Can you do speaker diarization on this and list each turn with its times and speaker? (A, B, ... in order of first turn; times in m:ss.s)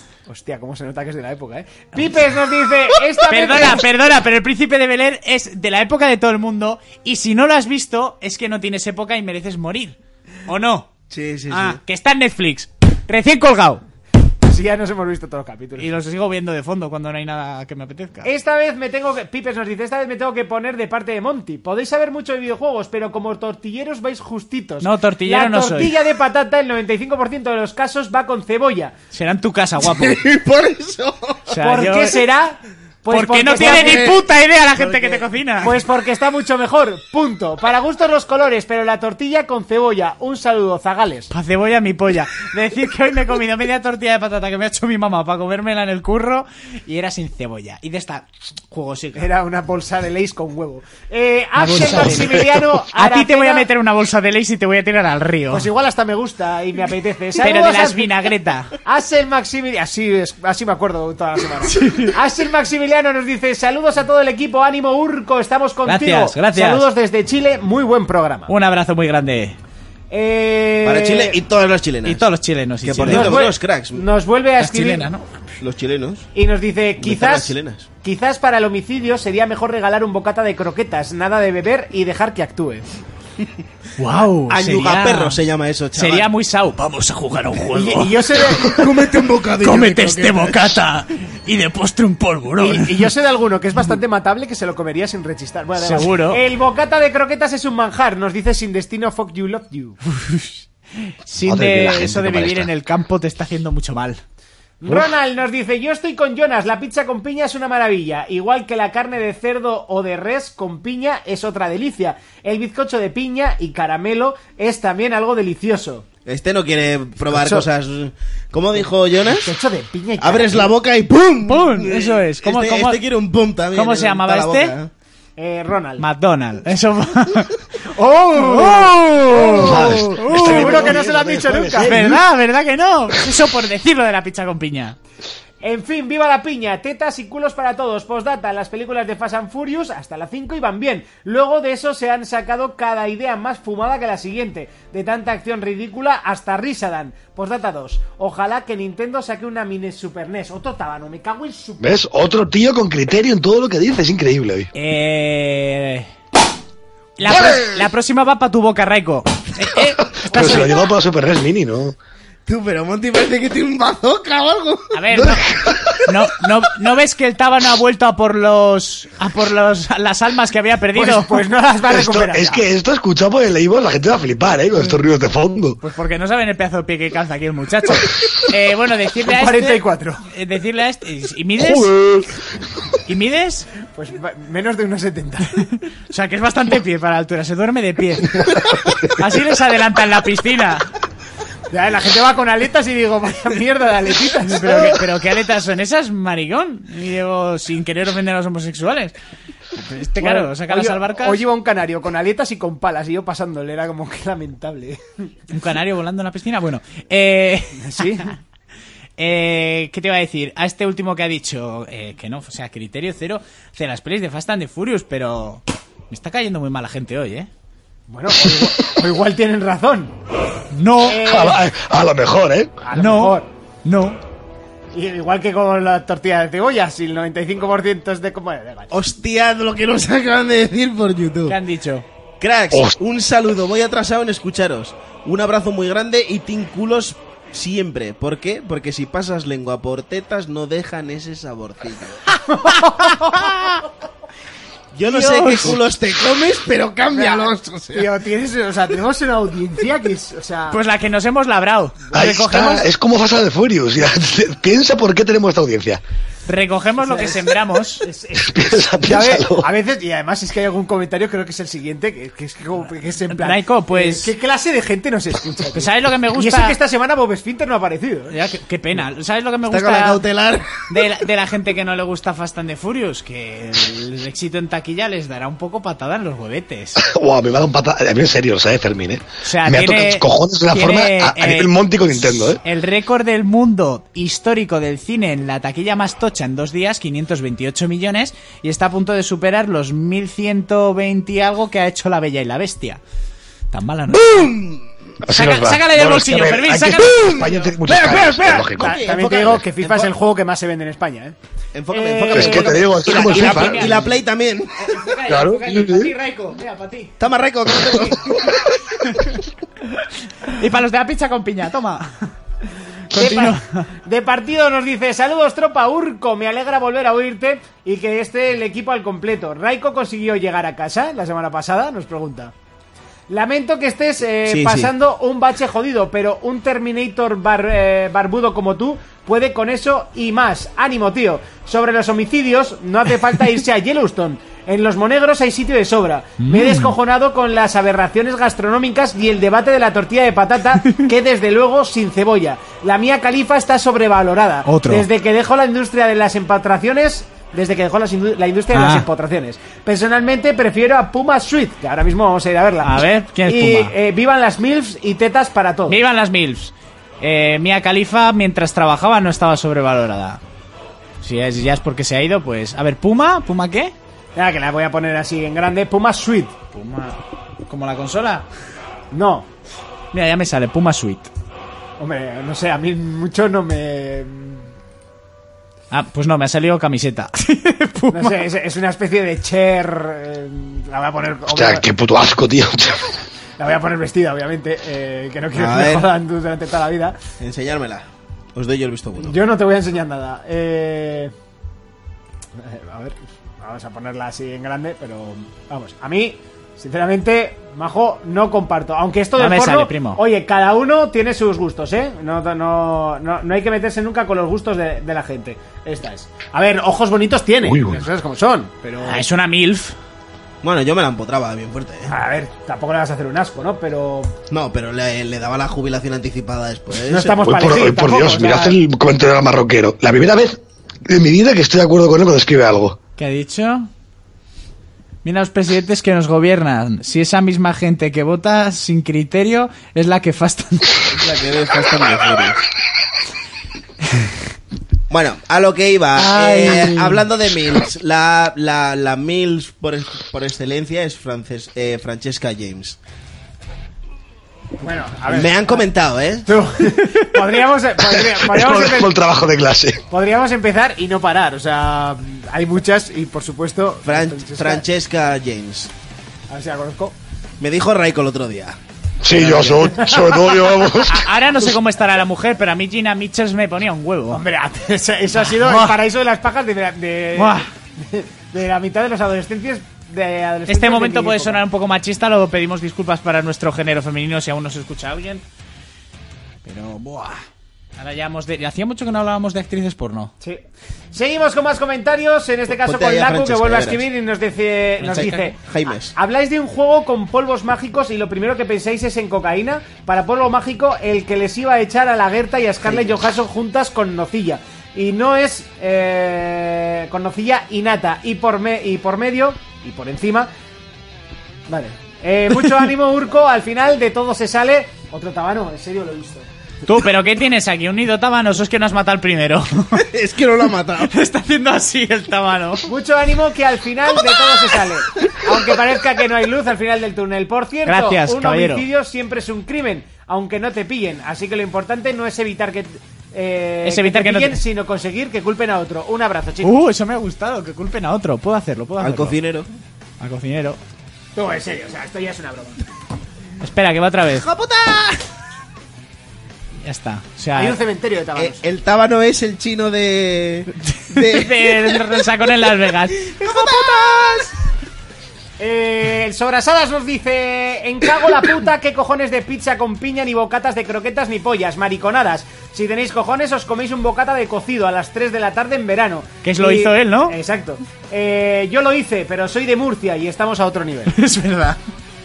0:00.3-0:03.8 A
0:03.3-0:10.9 B
0:11.1-0:11.8 C
0:11.5-0:13.8 B
0:14.4-0:15.9 A
0:15.8-0:18.3 B
0:18.2-0:28.9 A
0:24.8-0:25.9 B
0:29.1-0:30.2 B
0:29.8-0:31.5 C
0:31.5-0:32.2 B
0:31.6-0:34.1 A
0:33.1-0:35.8 B
0:33.6-0:34.2 C
0:34.8-0:35.2 C
0:35.6-0:41.3 A
0:41.3-0:49.2 B
0:49.2-0:53.6 A
0:51.6-0:55.7 B
0:55.5-0:58.1 A
0:57.4-0:58.7 B
0:58.8-1:08.5 A
1:01.7-1:02.1 B
1:05.8-1:06.9 B
1:08.5-1:09.6 B
1:10.1-1:11.4 A
1:10.8-1:12.2 C
1:12.0-1:13.5 B
1:12.8-1:14.0 C
1:13.0-1:15.1 A
1:14.6-1:15.3 B
1:15.6-1:16.3 C
1:16.3-1:22.8 A
1:17.0-1:17.9 C
1:24.0-1:25.4 B
1:24.5-1:26.3 C
1:25.9-1:28.8 B
1:27.7-1:28.8 A
1:28.5-1:30.8 C
1:29.6-1:33.1 B
1:32.6-1:40.0 A
1:35.8-1:36.4 B
1:40.1-1:44.2 B
1:41.4-1:42.7 D
1:44.8-1:56.0 A
1:56.2-1:59.5 C
1:57.3-1:57.6 A
1:59.4-2:00.7 A
2:00.2-2:04.9 C
2:01.4-2:03.0 B
2:03.7-2:04.7 B
2:05.4-2:06.0 A
2:06.0-2:07.6 B
2:07.9-2:11.9 A
2:08.4-2:11.0 B
2:09.5-2:12.2 D
2:11.8-2:15.0 B
2:15.6-2:31.9 A
2:31.8-2:34.7 D
2:34.7-2:36.1 B
2:37.2-2:40.7 B
2:40.1-2:42.0 D
2:42.4-2:45.4 C
2:44.9-2:45.4 B
2:46.0-2:51.4 B
2:50.9-2:52.6 A
2:51.9-2:55.8 D
2:55.8-3:02.0 B
2:59.3-3:00.2 A
3:01.6-3:02.3 D
3:03.0-3:03.7 B
3:03.9-3:05.6 A
3:06.1-3:10.9 B
3:11.7-3:15.0 A
3:14.5-3:19.1 B
3:19.8-3:21.4 B
3:20.2-3:25.0 A
3:25.5-3:28.3 B
3:27.8-3:28.3 A
3:29.2-3:37.5 B
3:38.1-3:40.1 A
3:40.7-3:41.2 B
3:41.0-3:41.6 A
3:41.2-3:42.7 D
3:42.8-3:43.5 A
3:43.0-3:44.2 B
3:44.9-3:48.9 A
3:48.9-3:51.6 C
3:51.5-3:52.0 B
3:52.4-4:02.2 C
3:52.7-3:53.0 D
4:02.5-4:03.4 A
4:04.9-4:08.1 C
4:05.1-4:05.8 B
4:07.1-4:10.8 A
4:10.7-4:12.8 B
4:12.1-4:12.7 A
4:12.1-4:16.0 D
4:16.5-4:18.0 B
4:17.0-4:17.4 A
4:18.0-4:28.3 A
4:18.4-4:19.7 D
4:23.3-4:24.3 B
4:25.7-4:26.8 B
4:28.3-4:30.2 B
4:29.7-4:30.8 C
4:30.9-4:37.0 B
4:37.0-4:42.6 D
4:39.4-4:53.0 B
4:53.7-4:54.5 B
4:54.1-4:54.8 C
4:55.2-4:59.0 D
4:55.3-4:57.7 B
4:57.8-5:01.3 A
4:58.7-5:00.1 C
5:01.7-5:05.0 C
5:01.9-5:03.7 A
5:02.3-5:03.9 D
5:03.1-5:04.2 B
5:04.8-5:07.1 B
5:05.3-5:06.1 D
5:07.2-5:08.6 C
5:10.4-5:12.3 B
5:13.1-5:13.9 B
5:13.1-5:22.5 A
5:23.3-5:56.0 A
5:24.4-5:24.9 C
5:36.4-5:36.9 B
5:44.6-5:45.1 B
5:48.7-5:49.0 B
5:52.8-5:53.9 B
5:55.9-6:00.4 B
6:01.2-6:03.9 B
6:04.4-6:06.5 A
6:06.7-6:08.4 B
6:09.1-6:09.5 A
6:10.1-6:11.3 B
6:12.0-6:14.7 A
6:15.9-6:18.4 B
6:18.1-6:21.8 A
6:21.5-6:23.1 D
6:23.6-6:27.2 A
6:25.5-6:26.1 C
6:27.4-6:29.3 C
6:29.2-6:31.3 A
6:32.6-6:49.2 A
6:39.4-6:40.2 B
6:47.6-6:48.0 D
6:49.0-6:49.9 B
6:50.6-6:52.1 C
6:52.1-6:54.3 A
6:54.5-6:57.5 C
6:57.1-6:58.8 A
6:57.4-7:03.0 D
7:03.2-7:03.9 B
7:05.2-7:11.1 B
7:11.1-7:12.6 C
7:15.1-7:23.0 C
7:16.2-7:17.2 B
7:24.8-7:25.8 A
7:25.3-7:26.5 C
7:26.4-7:29.2 A
7:28.1-7:30.0 D
7:30.1-7:34.8 A
7:34.0-7:35.9 C
7:36.5-7:37.1 A
7:37.6-7:38.8 C
7:39.2-7:41.3 D
7:39.3-7:40.0 C
7:39.9-7:40.4 A
7:41.0-7:44.4 B
7:44.3-7:51.6 A
7:45.4-7:46.0 B
7:47.4-7:47.7 B
7:50.7-7:55.4 B
7:56.6-7:57.4 B
7:58.0-8:00.3 B
8:01.1-8:05.6 A
8:02.7-8:04.0 C
8:05.0-8:05.5 B
8:05.1-8:06.1 C
8:06.1-8:20.5 A
8:12.9-8:13.1 C
8:21.7-8:26.5 A
8:26.8-8:30.0 B
8:30.0-8:31.1 C
8:31.0-8:32.9 B
8:32.8-8:46.7 A
8:37.8-8:38.8 B
8:43.8-8:44.6 B
8:46.6-8:49.4 B
8:49.0-8:49.7 C
8:50.2-8:50.8 B
8:51.4-8:52.8 A
8:53.6-8:54.5 B
8:54.3-8:55.2 C
8:56.8-8:57.8 B
8:57.5-8:58.6 A
8:58.4-9:02.2 C
9:01.1-9:03.8 B
9:03.2-9:04.5 C
9:05.6-9:21.1 A
9:16.4-9:17.4 B
9:21.1-9:21.8 B